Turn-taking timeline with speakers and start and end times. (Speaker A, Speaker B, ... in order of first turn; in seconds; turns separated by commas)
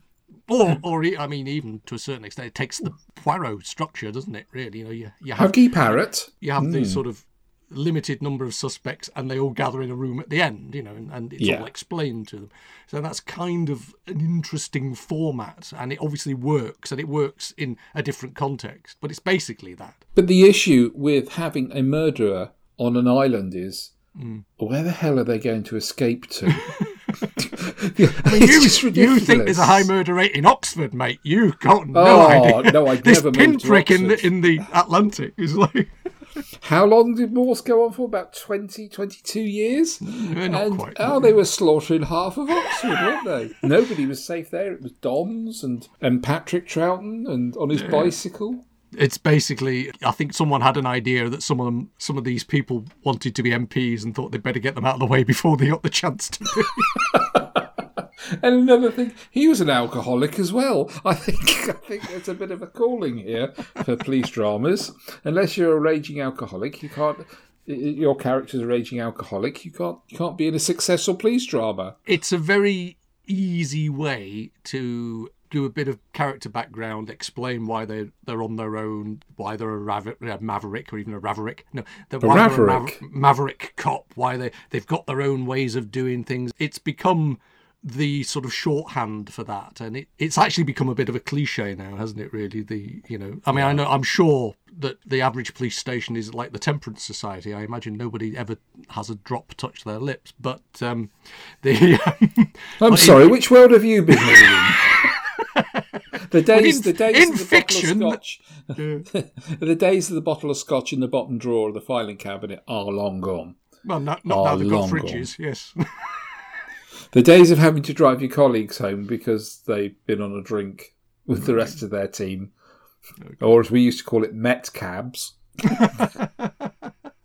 Speaker A: 0.5-20.0, Speaker B: 5.4-7.0, Speaker B: 11.4-11.7, Speaker B: 20.2-23.9, Speaker A: 24.2-24.4, Speaker B: 24.6-26.8, Speaker A: 26.6-27.5, Speaker B: 27.4-29.9, Speaker A: 28.1-35.9, Speaker B: 31.9-34.6, Speaker B: 36.6-48.6, Speaker A: 40.0-41.4, Speaker A: 42.6-43.0, Speaker A: 47.7-48.1, Speaker A: 49.0-57.1, Speaker B: 57.1-72.0, Speaker A: 72.1-103.4, Speaker B: 82.2-83.0, Speaker B: 93.5-93.8, Speaker B: 102.8-104.9, Speaker A: 104.1-105.8, Speaker B: 106.3-113.6, Speaker A: 106.5-108.2, Speaker A: 108.8-109.1, Speaker A: 113.8-116.2, Speaker B: 114.3-115.3, Speaker B: 117.1-122.5, Speaker B: 123.4-125.9, Speaker A: 125.7-126.5